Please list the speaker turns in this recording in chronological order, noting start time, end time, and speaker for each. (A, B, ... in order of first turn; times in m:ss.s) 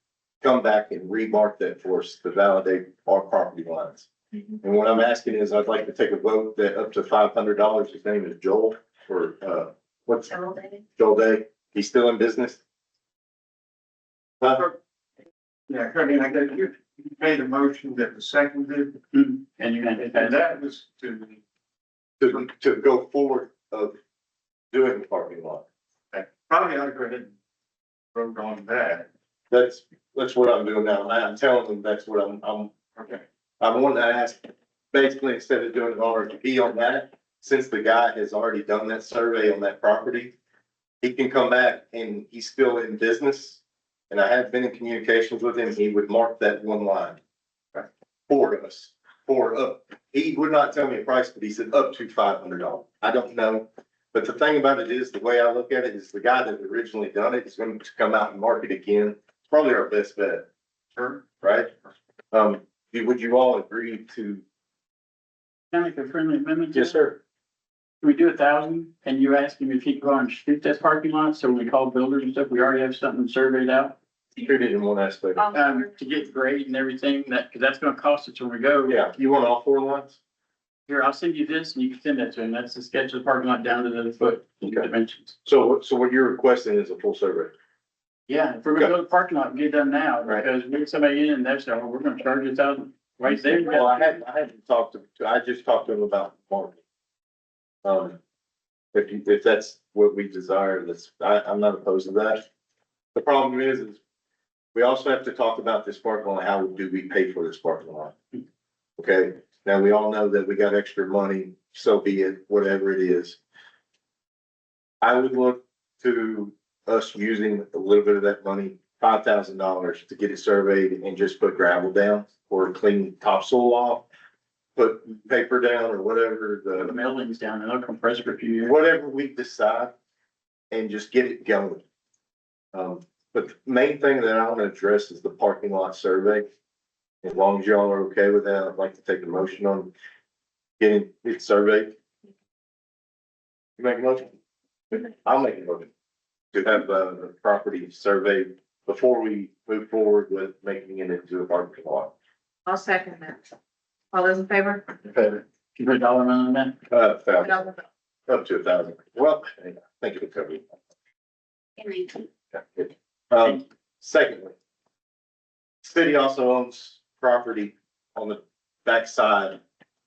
0:00.4-0:04.1 A
0:04.6-0:10.4 A
0:11.0-0:12.6 A
0:14.4-0:14.7 A
0:15.7-0:19.0 B
0:19.1-0:20.4 C
0:20.0-0:21.4 B
0:22.2-0:24.0 A
0:24.7-0:25.6 A
0:26.1-0:27.3 B
0:28.2-0:29.1 B
0:29.5-0:40.4 A
0:41.0-0:47.2 A
0:47.8-1:00.5 A
1:01.2-1:01.7 A
1:02.3-1:04.4 A
1:05.7-1:07.0 C
1:06.7-1:07.2 A
1:08.0-1:14.0 C
1:14.4-1:15.5 A
1:15.5-1:19.0 C
1:18.9-1:20.2 A
1:20.9-1:25.4 C
1:24.6-1:24.9 A
1:25.4-1:27.5 A
1:28.3-1:34.2 C
1:33.5-1:36.8 A
1:37.8-1:38.2 A
1:38.9-1:42.4 A
1:43.1-1:44.0 A
1:44.7-1:48.2 A
1:49.0-1:53.4 A
1:55.0-2:04.1 A
2:04.8-2:07.0 A
2:06.8-2:08.7 C
2:08.6-2:09.9 A
2:10.7-2:11.8 A
2:12.7-2:16.5 A
2:17.2-2:19.9 A
2:20.8-2:22.0 A
2:23.8-2:24.3 A
2:24.9-2:25.9 A
2:26.5-2:32.1 A
2:32.7-2:33.5 D
2:34.1-2:34.9 D
2:35.1-2:36.8 C
2:36.9-2:37.8 A
2:37.4-2:37.7 D
2:38.3-2:40.6 A
2:41.8-2:42.2 D
2:42.6-2:44.6 A
2:45.8-2:49.6 A